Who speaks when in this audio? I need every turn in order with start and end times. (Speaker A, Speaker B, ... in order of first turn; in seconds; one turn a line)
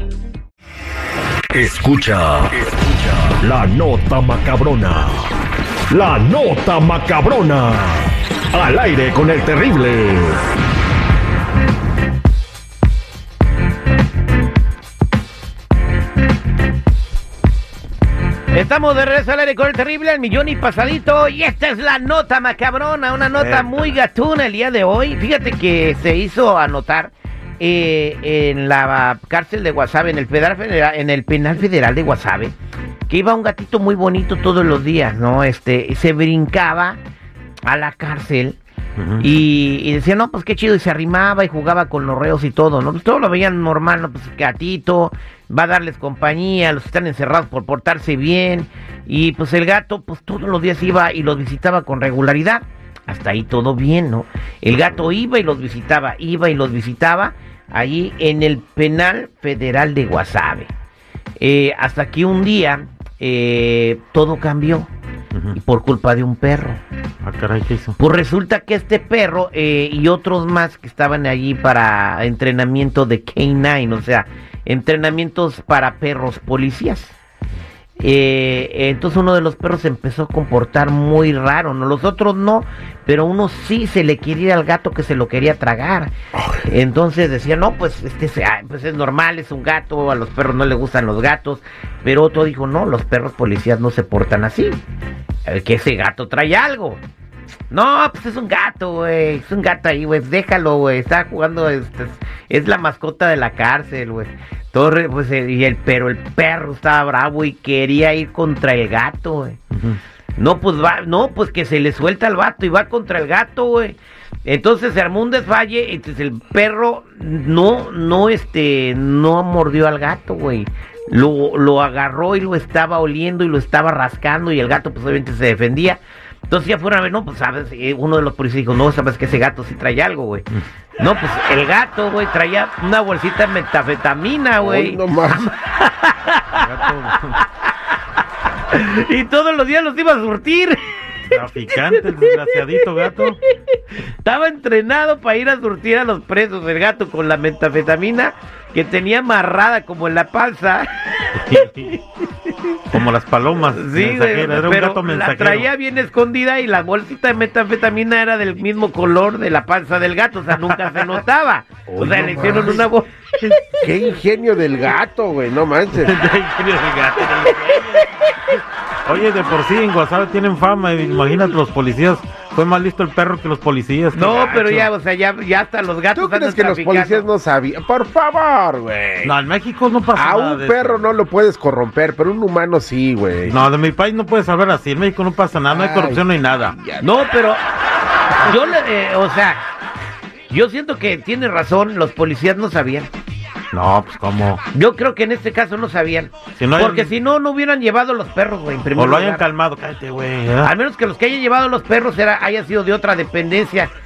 Speaker A: 1.5-5.3
Speaker A: 5.9-10.4
Speaker B: 18.5-32.5
Speaker C: 23.4-23.9
Speaker B: 33.1-37.0
Speaker B: 37.6-38.6
Speaker C: 39.0-39.2
Speaker B: 39.2-60.7
Speaker D: 54.8-55.0
Speaker B: 61.4-64.9
Speaker B: 65.5-66.8
Speaker C: 67.2-68.0
Speaker B: 68.0-77.1
Speaker B: 78.0-86.1
Speaker D: 86.3-86.6
Speaker B: 86.6-94.8
Speaker B: 95.4-97.0
Speaker B: 97.7-109.6
Speaker C: 109.7-110.0
Speaker B: 110.4-130.4
Speaker B: 131.0-137.4
Speaker D: 134.6-135.5
Speaker C: 136.5-137.4
Speaker B: 138.7-140.8
Speaker C: 141.3-143.4
Speaker B: 141.7-151.2
Speaker C: 151.3-152.0
Speaker B: 152.4-152.8
Speaker C: 152.9-155.7
Speaker B: 153.7-163.5
Speaker C: 160.7-161.2
Speaker D: 161.9-162.9
Speaker D: 163.8-166.2
Speaker C: 165.9-174.9
Speaker B: 174.1-177.3
Speaker D: 176.1-179.3
Speaker C: 179.2-181.1
Speaker D: 180.1-183.6
Speaker C: 183.4-186.8
Speaker D: 185.7-187.1
Speaker B: 187.0-187.6
Speaker B: 188.4-189.6
Speaker B: 190.5-193.1
Speaker C: 193.7-194.6
Speaker B: 194.7-199.4
Speaker C: 196.6-197.1
Speaker C: 198.9-200.7
Speaker B: 200.6-203.9